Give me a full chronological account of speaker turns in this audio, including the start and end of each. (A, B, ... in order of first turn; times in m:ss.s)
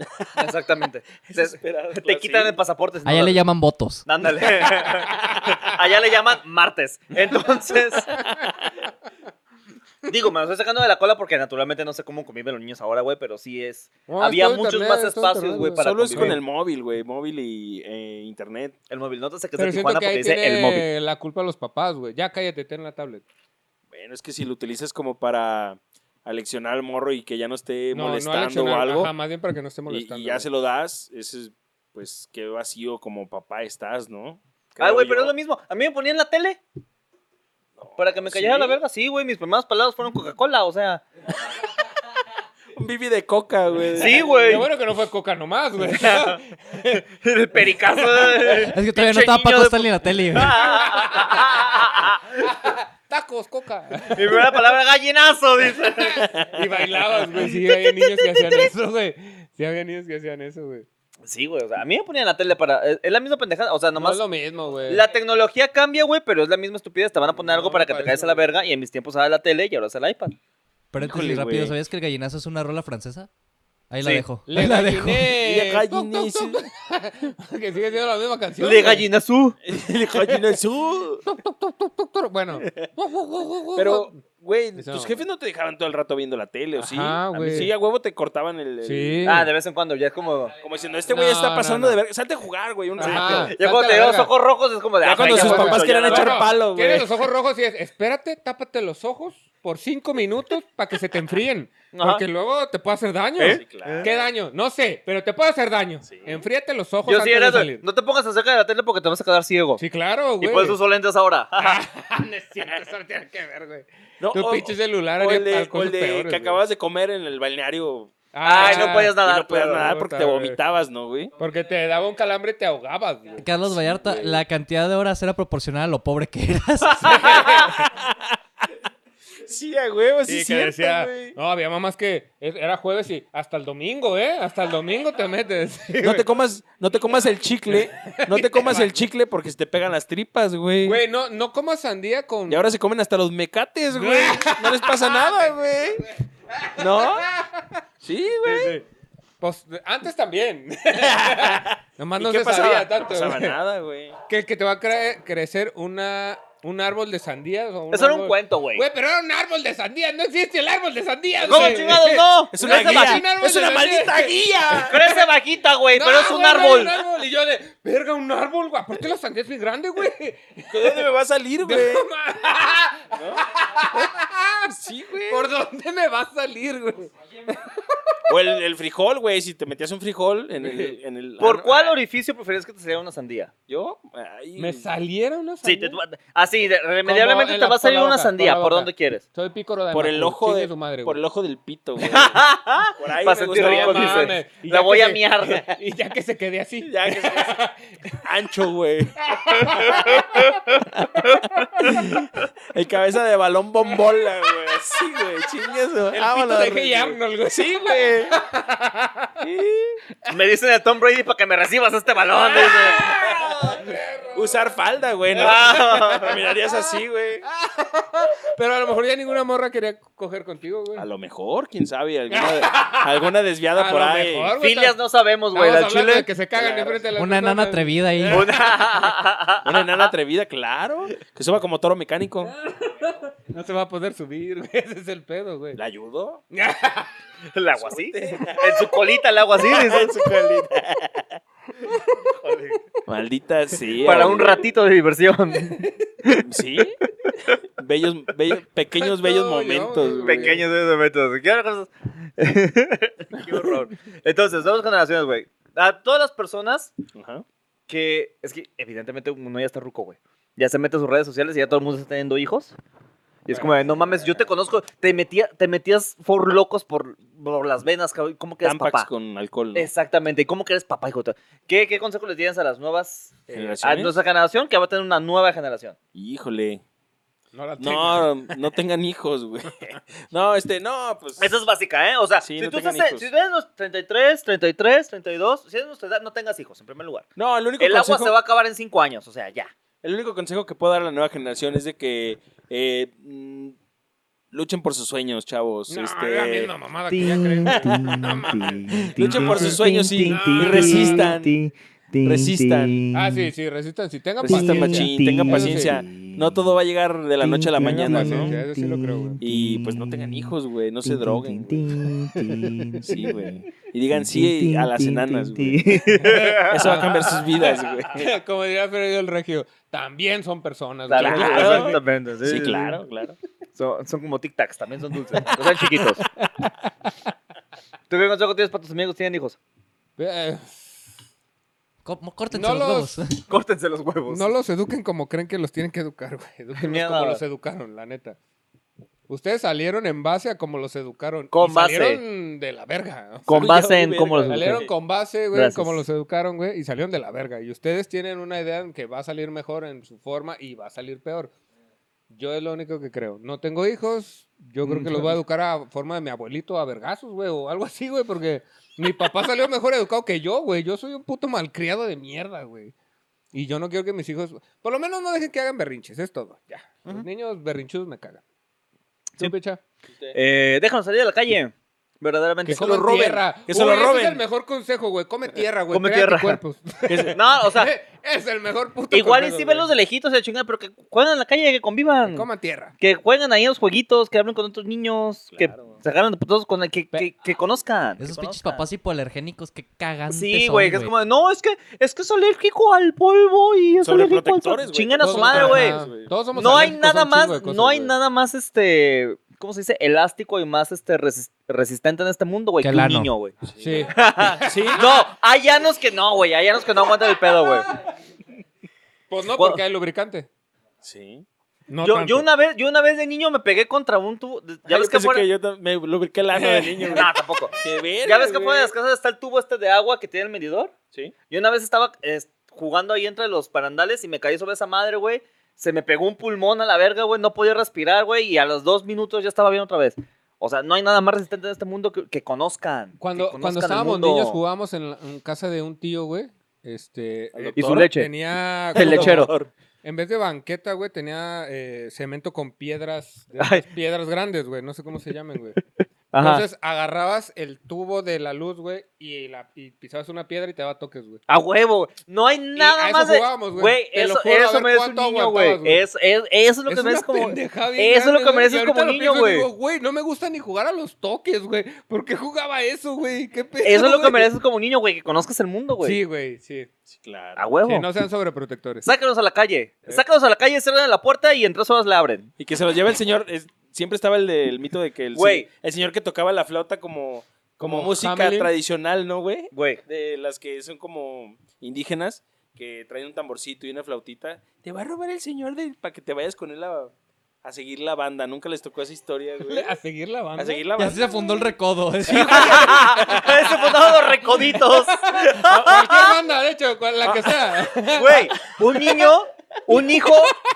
0:00.4-0:03.4 A
0:01.3-0:02.6 B
0:03.0-0:04.0 C
0:04.0-0:08.1 A
0:08.2-0:08.7 B
0:10.1-0:16.4 A
0:14.1-0:16.4 D
0:15.8-0:18.8 B
0:18.9-0:20.9 A
0:19.6-0:23.2 D
0:23.9-0:29.1 B
0:27.9-0:30.5 D
0:29.9-0:35.3 B
0:34.8-0:36.6 A
0:37.8-0:38.8 B
0:38.0-0:41.0 A
0:42.7-0:44.3 B
0:44.0-0:44.7 A
0:44.4-0:47.0 D
0:45.9-0:46.4 A
0:47.1-0:52.5 A
0:48.2-0:48.6 D
0:48.7-0:50.6 C
0:50.6-0:51.9 D
0:52.4-0:54.7 D
0:54.1-0:56.3 A
0:56.0-1:00.8 D
0:56.2-0:56.7 B
0:57.4-0:58.7 A
1:01.2-1:04.2 A
1:04.0-1:05.0 D
1:04.9-1:10.3 A
1:07.4-1:08.5 D
1:10.9-1:13.3 C
1:11.0-1:11.8 B
1:13.9-1:15.3 C
1:14.5-1:19.1 D
1:15.3-1:16.6 B
1:18.6-1:19.6 A
1:19.6-1:21.2 B
1:21.2-1:24.2 D
1:22.6-1:22.9 B
1:23.8-1:29.4 B
1:24.7-1:25.2 D
1:26.8-1:27.7 D
1:27.3-1:27.7 A
1:28.8-1:29.5 D
1:29.2-1:30.5 A
1:30.6-1:33.5 B
1:31.1-1:32.0 D
1:33.0-1:34.3 D
1:33.0-1:36.4 A
1:35.0-1:37.1 B
1:35.2-1:47.8 D
1:41.9-1:42.2 A
1:43.4-1:44.1 A
1:43.5-1:44.2 B
1:46.0-1:46.4 B
1:47.1-1:49.8 A
1:49.8-1:50.8 D
1:50.4-1:51.8 A
1:51.6-1:56.6 D
1:54.2-2:01.3 B
1:58.3-2:00.6 D
1:58.4-1:59.9 A
2:01.4-2:03.4 D
2:03.4-2:07.7 C
2:03.5-2:04.4 B
2:07.1-2:07.7 D
2:07.4-2:08.7 B
2:09.4-2:11.4 B
2:10.3-2:16.2 D
2:16.0-2:21.0 B
2:17.7-2:19.0 D
2:20.8-2:22.6 D
2:22.5-2:26.0 B
2:23.9-2:25.5 D
2:26.5-2:27.8 D
2:26.8-2:27.3 B
2:28.0-2:28.8 B
2:28.5-2:28.8 A
2:29.4-2:33.6 D
2:31.0-2:34.1 B
2:34.3-2:45.2 D
2:37.9-2:38.8 A
2:41.4-2:43.2 A
2:42.5-2:45.1 B
2:44.8-2:46.9 A
2:45.9-2:54.7 D
2:50.7-2:52.1 B
2:53.1-2:53.4 B
2:54.7-2:55.4 B
2:55.3-2:58.2 D
2:58.3-3:02.0 B
3:00.6-3:01.0 D
3:01.4-3:03.5 A
3:03.7-3:04.8 B
3:04.6-3:06.0 D
3:05.6-3:09.2 A
3:07.0-3:11.2 D
3:09.9-3:12.4 B
3:12.0-3:15.8 A
3:13.0-3:14.3 B
3:13.5-3:18.2 D
3:16.8-3:17.6 B
3:18.2-3:19.1 B
3:19.2-3:20.6 D
3:19.8-3:22.0 A
3:21.0-3:28.4 B
3:26.1-3:29.3 D
3:29.4-3:30.0 B
3:30.3-3:33.2 A
3:32.4-3:34.8 D
3:34.3-3:37.4 B
3:35.3-3:36.4 A
3:35.4-3:36.8 D
3:37.4-3:41.1 D
3:41.0-3:44.5 B
3:42.3-3:43.1 D
3:43.7-3:45.0 D
3:44.6-3:47.0 A
3:45.5-3:48.4 D
3:47.1-3:48.5 C
3:48.3-3:50.1 A
3:49.6-3:52.5 B
3:52.5-3:55.8 D
3:55.8-3:56.4 B
3:56.5-3:57.1 D
3:57.5-4:00.2 A
3:57.8-4:01.4 B
4:02.4-4:02.8 A
4:03.0-4:04.6 B
4:04.0-4:06.4 A
4:05.7-4:06.0 D
4:06.4-4:07.0 B
4:07.3-4:07.6 A
4:07.7-4:10.6 B
4:08.9-4:10.6 D
4:10.2-4:16.9 A
4:17.1-4:17.4 B
4:17.9-4:22.8 A
4:23.4-4:29.1 A
4:28.6-4:29.9 B
4:29.7-4:35.9 A
4:33.5-4:34.2 B
4:36.1-4:36.8 B
4:37.5-4:38.6 D
4:37.8-4:41.5 B
4:41.4-4:47.2 A
4:42.4-4:43.3 B
4:47.4-4:48.3 B
4:47.8-4:49.7 A
4:50.0-4:53.8 B
4:54.5-4:56.7 B
4:55.9-5:01.3 D
4:57.1-5:03.5 A
4:57.7-4:58.2 B
4:59.0-5:01.5 B
5:02.2-5:03.0 B
5:03.1-5:06.0 D
5:04.4-5:08.6 B
5:04.4-5:06.6 A
5:07.4-5:13.1 A
5:07.7-5:09.4 D
5:09.4-5:12.0 B
5:12.4-5:12.9 D
5:13.0-5:18.4 B
5:14.1-5:17.4 A
5:16.1-5:22.0 D
5:21.1-5:23.0 A
5:21.1-5:23.4 B
5:23.8-5:26.2 A
5:25.4-5:26.7 D
5:28.1-5:29.6 A
5:30.2-5:31.1 D
5:32.0-5:33.4 C
5:32.5-5:33.2 D
5:33.5-5:34.5 A
5:34.3-5:38.4 D
5:36.7-5:37.4 A
5:39.3-5:43.6 D
5:41.5-5:42.2 A
5:43.5-5:44.8 A
5:43.5-5:44.9 B
5:44.5-5:51.5 D
5:45.5-5:46.0 A
5:52.3-6:02.9 D
5:54.8-5:55.4 A
6:03.5-6:08.4 D
6:09.4-6:09.8 D
6:10.3-6:13.3 A
6:12.6-6:19.9 D
6:12.7-6:14.4 B
6:15.9-6:16.6 A
6:17.0-6:17.3 B
6:17.3-6:17.9 A
6:19.1-6:22.5 A
6:22.3-6:22.9 D
6:23.0-6:28.8 A
6:25.5-6:26.0 B
6:28.2-6:31.1 C
6:30.3-6:36.0 A
6:34.0-6:36.9 B
6:35.2-6:38.1 D
6:36.5-6:47.9 A
6:42.8-6:43.3 C
6:43.6-6:44.1 B
6:43.8-6:45.2 D
6:44.6-6:45.2 B
6:49.3-6:50.5 D
6:51.0-6:51.4 B
6:51.9-6:52.4 D
6:52.0-6:55.5 A
6:54.9-6:58.9 B
6:56.5-6:57.2 D
6:57.1-7:00.9 A
7:01.5-7:14.6 A
7:13.2-7:19.5 D
7:17.5-7:18.1 B
7:17.7-7:18.3 A
7:18.9-7:19.5 A
7:18.9-7:19.7 B
7:20.0-7:25.8 D
7:23.6-7:23.8 A
7:26.3-7:26.6 A
7:26.4-7:31.4 D
7:31.5-7:39.7 A
7:32.8-7:36.0 D
7:36.9-7:44.5 D
7:43.8-7:46.2 A
7:46.0-7:46.9 D
7:47.1-7:47.6 B
7:47.6-7:48.1 A
7:47.8-7:49.1 D
7:49.0-7:52.5 A
7:52.6-8:07.1 B
7:55.3-7:55.7 A
7:57.8-7:58.7 D
7:59.7-8:00.0 A
8:07.6-8:09.9 B
8:09.6-8:10.8 D
8:10.6-8:11.5 B
8:11.0-8:13.0 C
8:12.2-8:13.8 B
8:12.4-8:16.4 A
8:14.6-8:18.5 D
8:17.2-8:20.6 A
8:19.9-8:20.6 D